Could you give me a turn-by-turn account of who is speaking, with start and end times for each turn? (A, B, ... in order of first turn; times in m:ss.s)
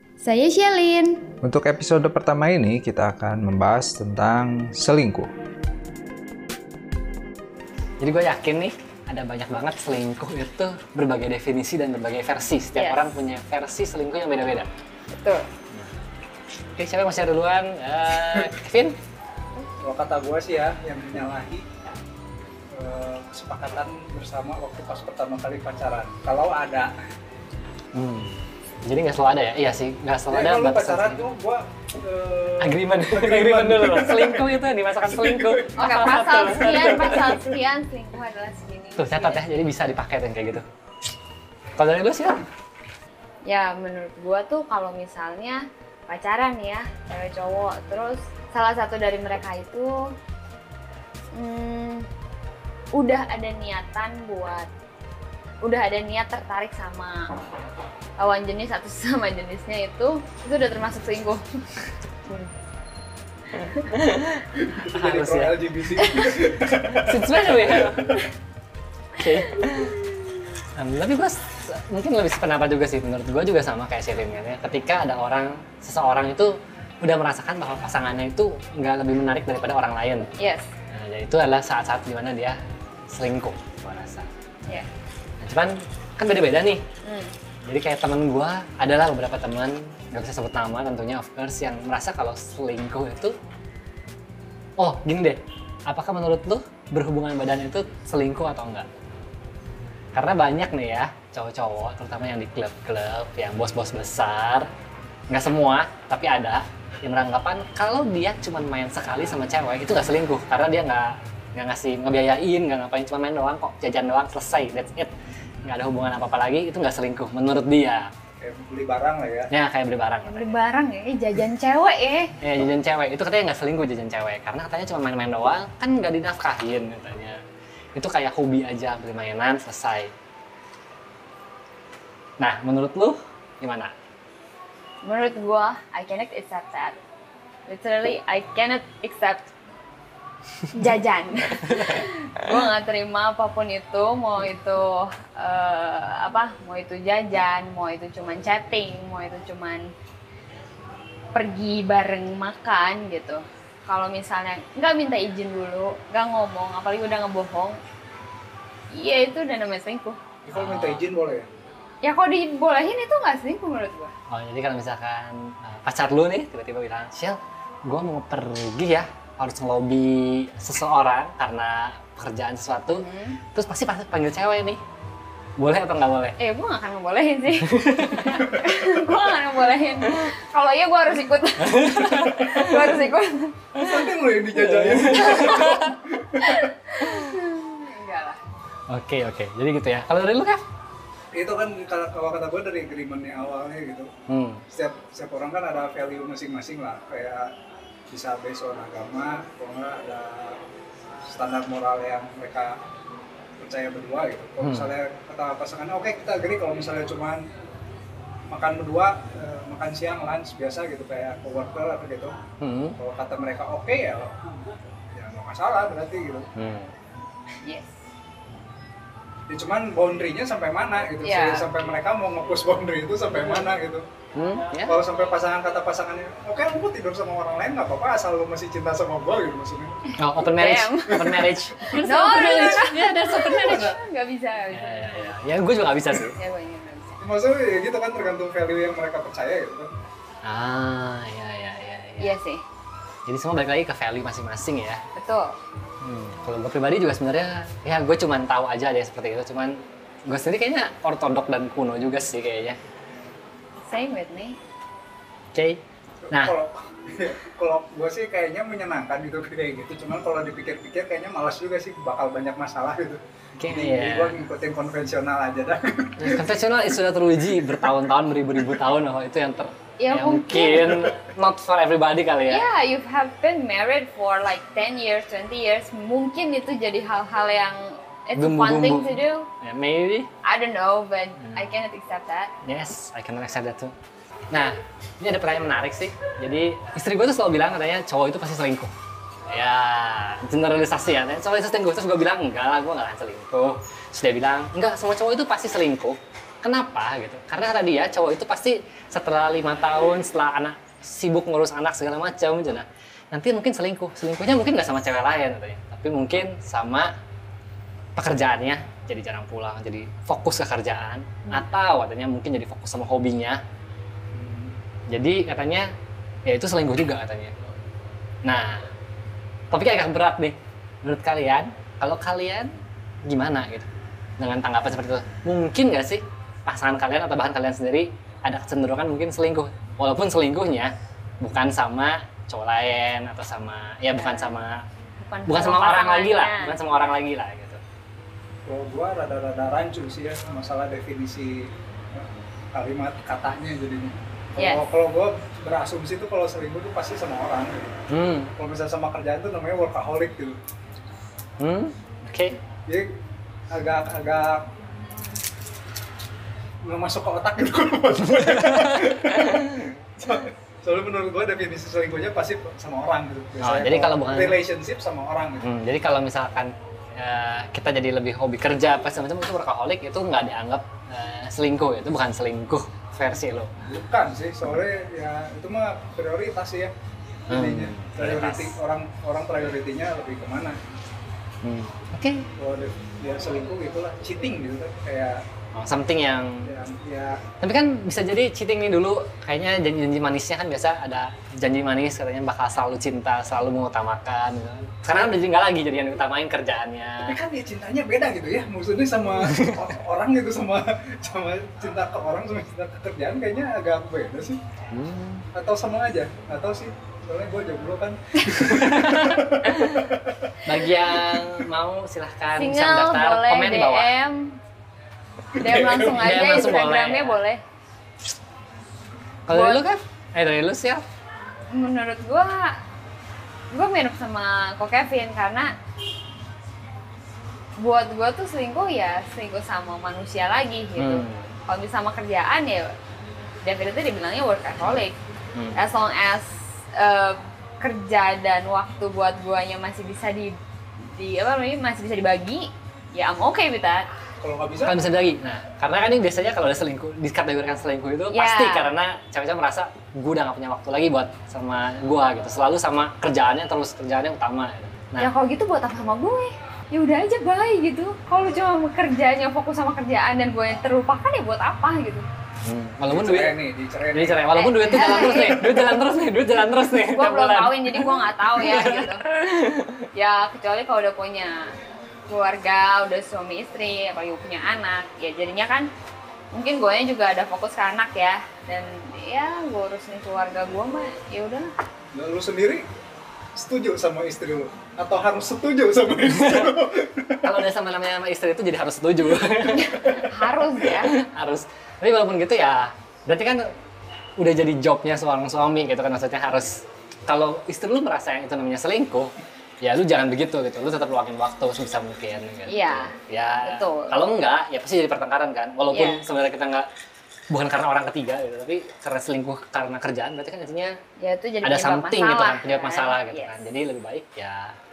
0:00.2-0:01.2 A
0:01.4-0:05.3 B
0:08.0-0:14.7 C
0:12.7-0:13.1 A
0:15.1-0:15.4 A
0:16.8-0:18.9 C
0:19.8-0:21.6 D
0:22.7-0:26.9 D
0:27.9-0:31.3 C
0:30.3-0:34.5 D
0:32.6-0:37.4 C
0:35.0-0:35.8 D
0:35.8-0:39.4 A
0:39.0-0:40.6 C
0:41.8-0:42.4 C
0:43.4-0:50.0 A
0:51.3-0:52.1 A
0:53.0-0:54.7 A
0:55.6-0:57.3 A
0:58.2-1:01.4 A
1:03.6-1:03.8 A
1:03.9-1:04.4 C
1:04.6-1:08.2 D
1:04.9-1:05.6 C
1:06.0-1:06.4 A
1:06.9-1:08.2 C
1:09.2-1:10.0 C
1:10.8-1:20.3 C
1:20.4-1:20.7 A
1:20.9-1:22.6 C
1:23.1-1:24.3 C
1:25.4-1:26.8 C
1:27.0-1:27.3 A
1:27.6-1:33.3 C
1:34.8-1:38.9 C
1:40.1-1:44.7 C
1:45.3-1:55.1 C
1:55.6-1:58.1 C
1:58.4-1:59.5 D
1:59.5-2:00.5 C
2:00.2-2:02.3 A
2:02.4-2:07.4 C
2:08.0-2:10.1 C
2:12.4-2:13.9 C
2:15.0-2:17.0 A
2:17.7-2:19.5 A
2:20.7-2:29.9 A
2:31.3-2:37.8 A
2:38.9-2:40.2 A
2:40.4-2:41.5 D
2:40.5-2:41.0 C
2:42.0-2:44.1 A
2:44.3-2:54.8 C
2:52.9-2:53.4 A
2:55.6-2:56.4 C
2:56.4-3:03.5 A
2:57.6-2:58.5 C
3:01.6-3:03.0 C
3:03.7-3:06.6 D
3:03.8-3:05.9 C
3:05.1-3:05.8 A
3:06.4-3:08.4 A
3:07.0-3:07.3 C
3:08.9-3:10.6 C
3:11.3-3:14.1 D
3:14.3-3:14.6 C
3:14.7-3:17.5 D
3:18.1-3:20.6 D
3:21.3-3:22.7 D
3:23.6-3:27.4 D
3:24.6-3:24.9 C
3:28.5-3:32.4 D
3:32.6-3:33.0 C
3:33.0-3:34.3 D
3:35.1-3:36.5 D
3:36.6-3:36.9 C
3:37.6-3:38.0 A
3:39.5-3:44.0 D
3:41.2-3:41.7 A
3:44.3-3:45.0 C
3:44.8-3:50.1 D
3:50.2-3:53.9 C
3:50.4-3:51.2 A
3:51.1-3:52.7 D
3:51.9-3:55.4 A
3:53.6-3:53.9 D
3:54.7-3:56.4 C
3:56.3-3:57.2 A
3:57.2-3:59.9 D
4:00.4-4:02.3 C
4:02.2-4:02.6 A
4:03.3-4:05.0 C
4:05.2-4:05.6 A
4:06.0-4:09.8 C
4:10.3-4:12.8 C
4:13.9-4:14.6 A
4:15.5-4:15.8 C
4:16.2-4:26.5 D
4:23.6-4:24.4 C
4:26.2-4:32.6 C
4:30.0-4:31.0 A
4:32.5-4:39.5 A
4:38.4-4:40.3 C
4:40.4-4:42.5 A
4:41.4-4:41.8 C
4:42.6-4:43.9 C
4:44.5-4:48.9 C
4:49.5-5:07.1 C
5:08.2-5:13.6 C
5:14.3-5:14.7 D
5:15.1-5:15.9 C
5:16.4-5:17.5 C
5:18.4-5:18.8 C
5:19.7-5:22.7 C
5:23.2-5:23.9 C
5:24.4-5:34.8 C
5:34.2-5:34.6 A
5:35.2-5:36.8 A
5:35.5-5:37.8 C
5:38.6-5:48.0 D
5:44.6-5:44.8 A
5:48.1-5:48.5 C
5:48.5-5:50.6 D
5:51.6-5:52.6 C
5:53.7-5:54.6 D
5:56.8-6:05.6 D
5:58.3-5:59.9 C
6:03.6-6:04.6 C
6:05.6-6:13.7 C
6:13.8-6:16.9 D
6:17.5-6:20.8 D
6:17.5-6:18.7 C
6:21.6-6:22.4 C
6:22.6-6:25.4 D
6:25.7-6:26.7 C
6:26.6-6:27.4 D
6:27.6-6:37.4 C
6:37.2-6:44.6 D
6:39.5-6:39.8 C
6:44.9-6:45.4 C
6:45.5-6:50.5 D
6:48.6-6:50.1 C
6:50.6-6:54.1 C
6:52.5-6:54.5 A
6:55.6-6:56.2 D
6:55.6-6:57.6 A
6:56.1-6:57.4 C
6:59.5-7:01.0 C
6:59.5-6:59.8 A
7:01.7-7:02.7 A
7:03.7-7:05.7 A
7:07.8-7:12.9 A
7:11.0-7:11.5 C
7:13.6-7:15.2 A
7:15.7-7:20.5 A
7:21.2-7:24.0 A
7:24.4-7:25.0 D
7:24.8-7:35.3 C
7:28.3-7:28.9 A
7:35.2-7:42.2 A
7:42.6-7:43.6 C
7:43.1-7:44.5 D
7:44.1-7:50.1 C
7:44.5-7:45.7 A
7:47.0-7:49.2 A
7:50.1-7:51.7 A
7:52.3-7:55.9 A
7:56.5-8:01.7 A
8:02.1-8:02.8 D
8:03.5-8:07.5 D
8:06.4-8:06.7 C
8:07.4-8:13.6 C
8:09.6-8:11.1 A
8:14.4-8:26.9 C
8:22.7-8:24.1 A
8:25.9-8:26.2 A
8:27.5-8:30.9 C
8:31.2-8:33.6 A
8:31.6-8:34.7 C